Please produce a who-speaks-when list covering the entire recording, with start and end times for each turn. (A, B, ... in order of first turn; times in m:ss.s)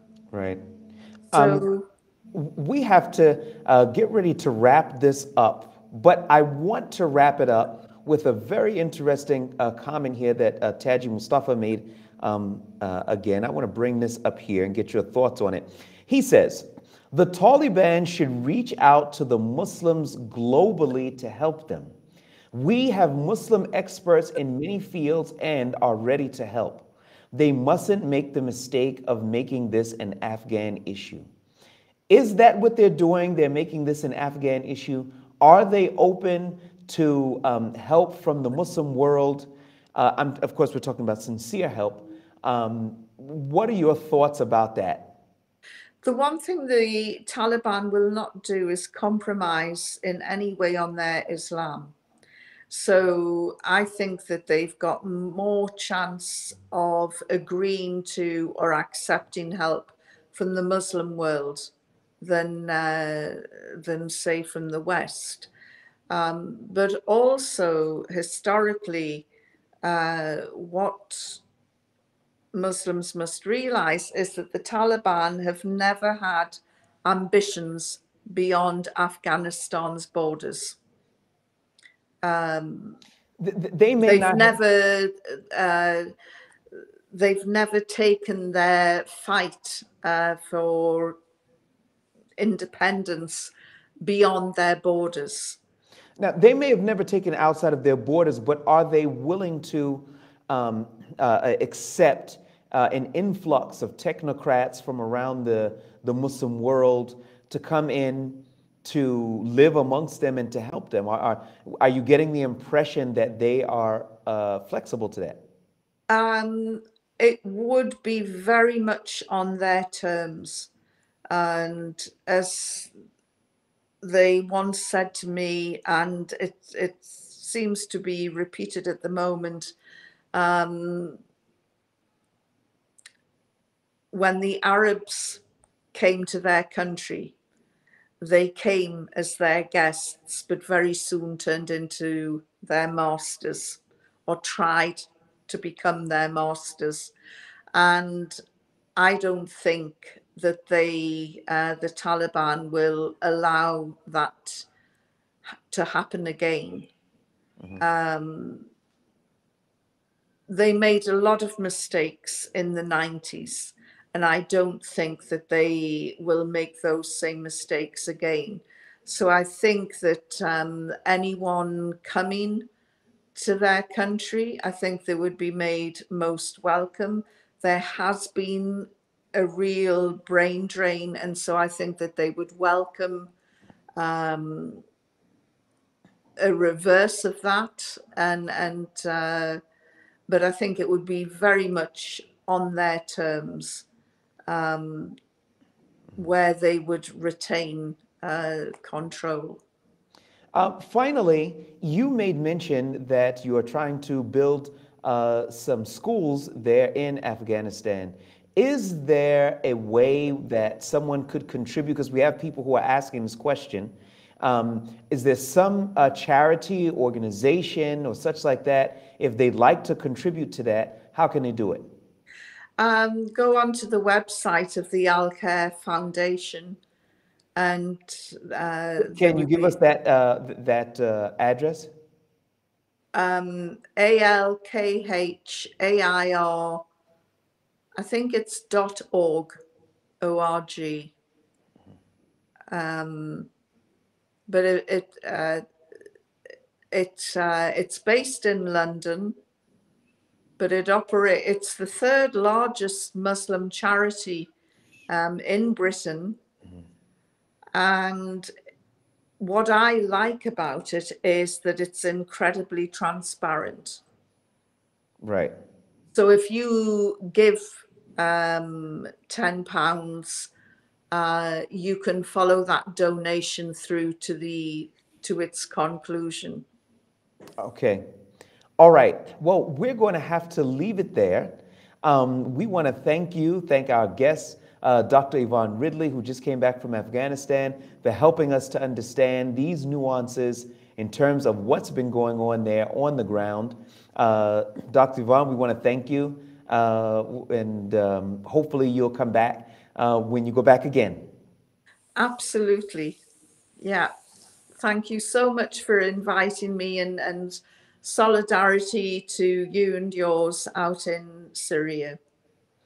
0:00.3-0:00.6 A
0:01.3-0:01.9 B
0:01.3-0:01.7 A
0:02.3-0:21.9 A
0:22.5-0:31.3 A
0:32.1-0:45.2 A
0:46.0-0:51.9 B
0:52.7-1:05.5 B
1:06.1-1:09.3 B
1:09.8-1:11.4 B
1:12.5-1:20.8 B
1:22.2-1:23.0 B
1:23.4-1:24.6 A
1:24.0-1:26.1 B
1:27.1-1:31.2 B
1:32.4-1:33.5 B
1:34.0-1:35.6 B
1:36.2-1:55.4 A
1:56.1-2:00.7 B
2:01.3-2:02.9 B
2:04.0-2:09.7 B
2:10.3-2:11.2 B
2:14.1-2:15.4 B
2:15.9-2:17.4 B
2:18.2-2:27.1 B
2:27.7-2:28.4 B
2:29.0-2:34.7 B
2:35.7-2:36.9 B
2:37.8-2:38.7 B
2:40.5-2:52.7 B
2:53.4-3:03.3 B
3:04.0-3:04.8 B
3:06.4-3:09.6 B
3:10.3-3:13.9 B
3:14.5-3:15.2 B
3:16.2-3:19.6 B
3:20.5-3:41.9 A
3:42.8-3:46.8 B
3:47.6-3:49.8 B
3:49.0-3:51.9 A
3:53.1-3:56.9 B
3:58.0-3:59.6 B
4:00.2-4:01.1 B
4:02.7-4:03.5 B
4:04.5-4:05.6 B
4:06.9-4:09.4 B
4:10.6-4:14.5 B
4:15.1-4:16.4 B
4:17.8-4:18.5 B
4:19.4-4:24.0 B
4:25.2-4:25.5 A
4:26.1-4:30.5 B
4:31.1-4:36.7 B
4:37.6-4:38.0 A
4:38.8-5:01.3 A
5:02.2-5:03.2 B
5:03.8-5:04.1 B
5:04.8-5:12.2 B